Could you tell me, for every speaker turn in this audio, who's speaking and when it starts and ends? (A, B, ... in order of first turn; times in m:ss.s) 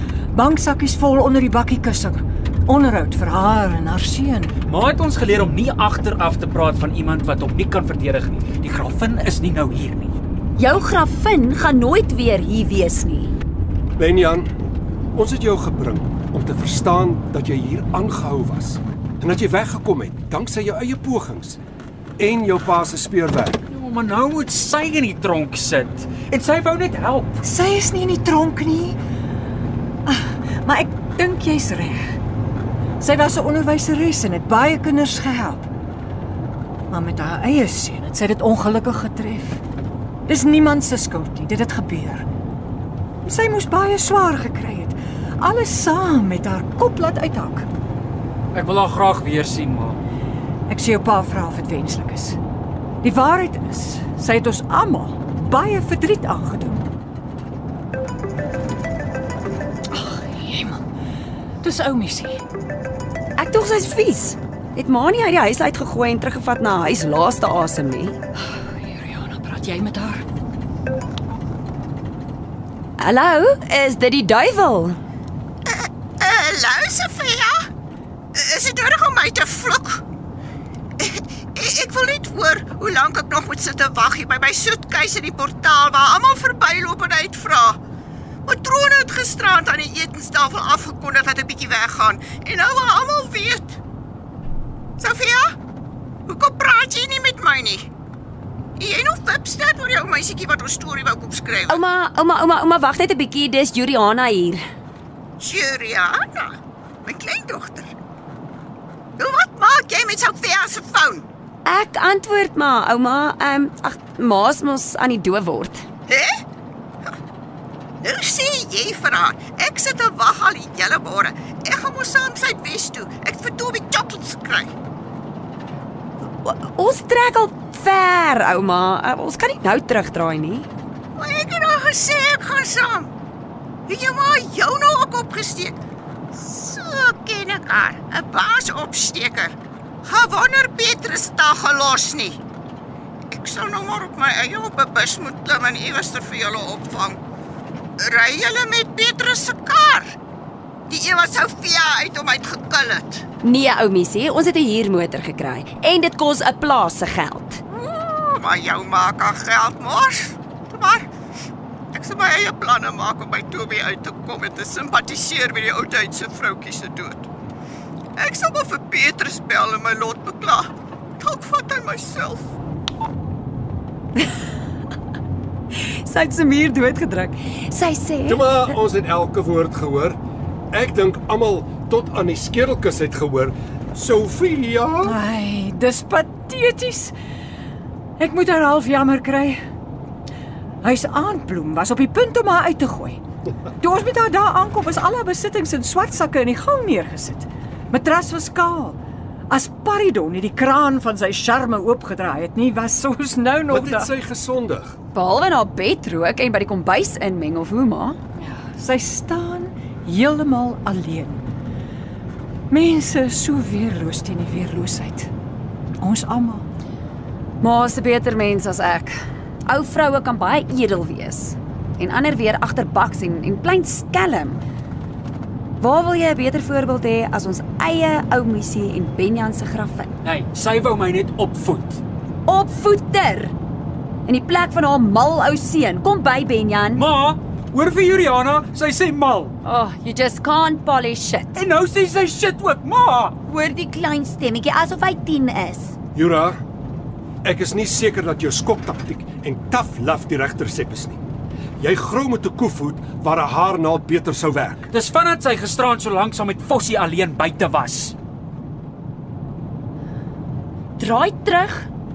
0:00.3-0:04.5 A
0:04.7-0:10.2 B
0:10.6-0:13.4 C
0:14.0-0:14.5 D
0:15.1-0:21.6 D
0:22.2-0:23.6 D
0:23.7-0:27.4 B
0:27.4-0:29.0 A
0:30.1-0:32.1 A
0:33.0-0:35.6 A
0:36.9-0:39.6 A
0:40.3-0:42.3 A
0:43.2-0:47.7 A
0:48.5-0:50.0 B
0:50.7-0:52.4 A
0:53.0-0:56.8 A
0:59.9-1:00.8 A
1:01.6-1:02.4 A
1:03.4-1:08.2 C
1:08.4-1:10.2 A
1:13.0-1:15.0 C
1:15.7-1:17.7 E
1:18.3-1:20.0 E
1:21.0-1:27.8 E
1:28.5-1:33.8 E
1:35.0-1:35.6 E
1:36.3-1:37.9 E
1:38.8-1:41.8 E
1:41.7-1:44.6 C
1:45.4-1:47.9 E
1:49.2-1:51.3 E
1:51.6-1:55.9 C
1:56.1-1:56.4 E
1:58.0-2:04.7 E
2:06.4-2:10.7 C
2:11.2-2:13.1 E
2:13.9-2:15.8 E
2:16.4-2:22.4 E
2:23.3-2:27.2 E
2:28.0-2:30.2 E
2:30.9-2:33.2 E
2:33.4-2:37.6 C
2:37.7-2:41.1 E
2:41.9-2:47.3 E
2:48.2-2:52.5 E
2:55.7-2:58.8 C
2:58.3-3:00.2 D
3:00.7-3:05.2 D
3:05.0-3:07.1 A
3:08.2-3:09.6 A
3:10.8-3:13.2 A
3:13.8-3:19.0 A
3:19.5-3:24.1 A
3:23.7-3:25.0 D
3:25.1-3:28.2 C
3:28.4-3:31.4 A
3:32.7-3:35.3 A
3:36.0-3:36.6 A
3:37.6-3:44.6 C
3:45.8-3:50.1 C
3:50.2-3:52.0 B
3:52.5-3:53.5 C
3:54.2-3:57.0 C
3:57.0-3:59.5 B
3:59.6-4:01.6 C
4:01.6-4:03.4 B
4:03.5-4:05.9 C
4:06.2-4:06.6 D
4:07.4-4:11.2 D
4:11.8-4:14.8 D
4:14.9-4:18.2 B
4:21.0-4:21.9 C